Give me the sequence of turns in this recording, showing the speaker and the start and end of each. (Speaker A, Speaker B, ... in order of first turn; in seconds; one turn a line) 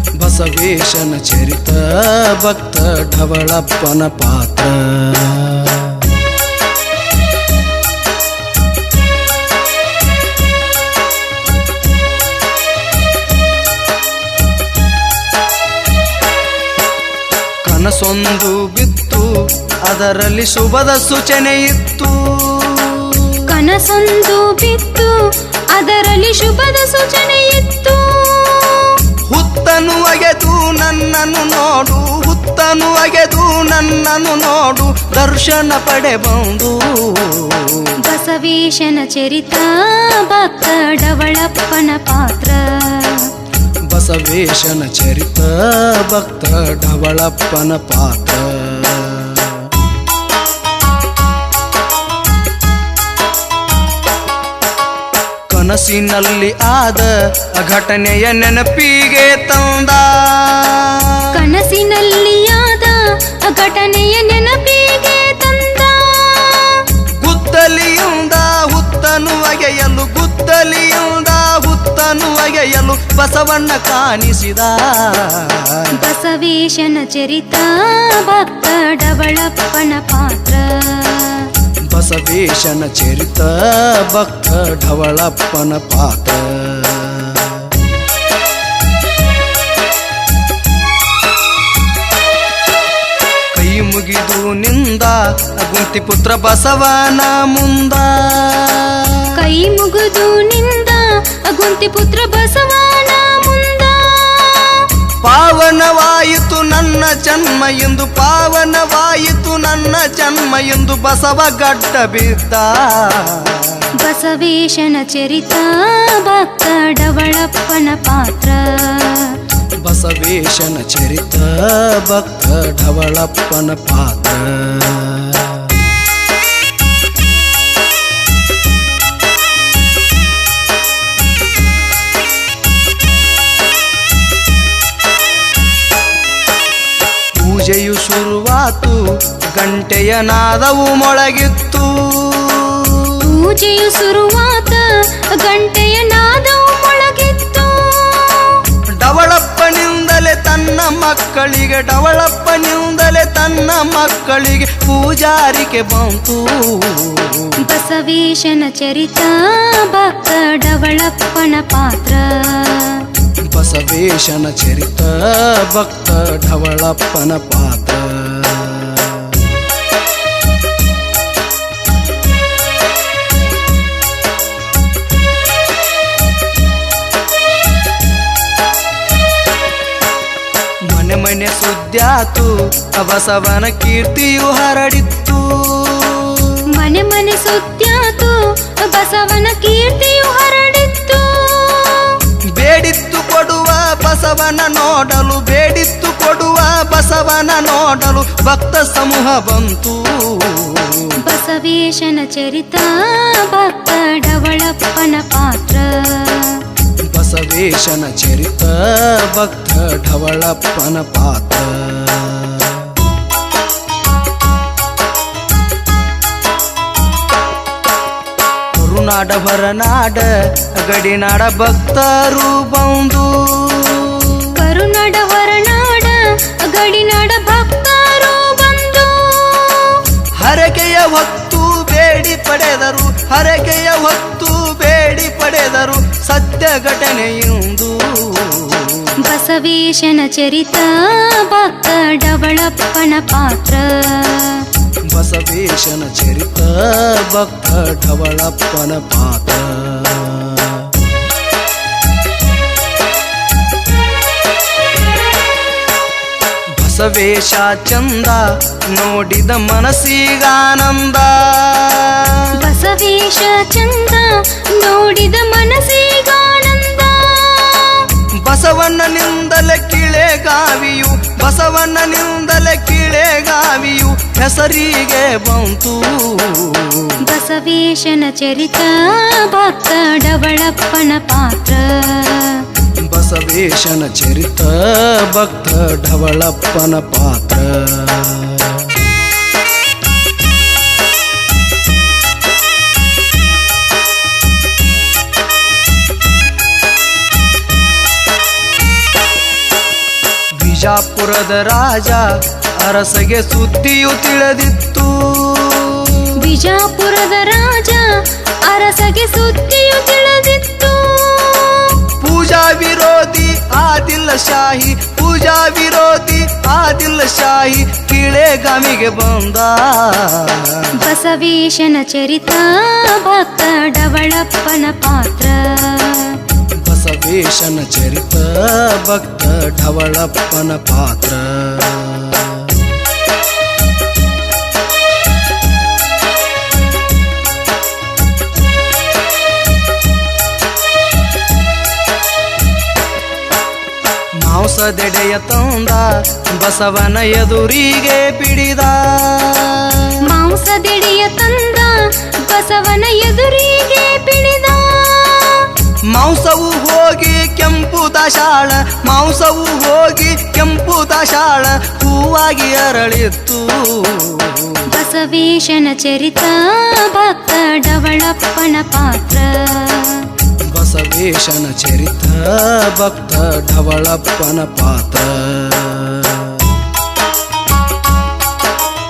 Speaker A: 0.1-6.1
Speaker A: 17.6-19.3
Speaker A: 19.8-23.4
Speaker B: 23.5-25.2
Speaker B: 25.7-29.0
Speaker A: 29.2-37.9
Speaker B: 38.0-43.3
Speaker A: 43.9-49.7
Speaker A: 55.5-61.3
Speaker B: 61.3-66.9
Speaker A: 67.2-75.9
Speaker B: 75.9-81.5
Speaker A: 81.9-87.7
Speaker A: 93.5-99.3
Speaker B: 99.3-104.9
Speaker A: 105.2-113.8
Speaker B: 114.0-119.4
Speaker A: 119.8-125.8
Speaker A: 137.4-143.2
Speaker B: 143.2-148.7
Speaker A: 149.0-157.6
Speaker B: 157.6-163.1
Speaker A: 163.5-169.4
Speaker A: 180.9-186.6
Speaker B: 186.7-192.2
Speaker A: 192.5-201.2
Speaker B: 201.2-206.7
Speaker A: 207.1-213.0
Speaker A: 218.7-224.5
Speaker B: 224.6-230.1
Speaker A: 230.4-239.1
Speaker B: 239.2-244.7
Speaker A: 245.1-250.9
Speaker A: 256.8-262.5
Speaker B: 262.5-268.1
Speaker A: 268.4-277.1
Speaker B: 277.2-282.7
Speaker A: 283.0-288.9
Speaker A: 300.6-306.3
Speaker B: 306.4-312.0
Speaker A: 312.2-320.9
Speaker B: 321.0-326.4
Speaker A: 326.8-332.8
Speaker A: 344.4-350.2
Speaker B: 350.2-355.7
Speaker A: 356.1-364.8
Speaker B: 364.9-370.3
Speaker A: 370.7-376.8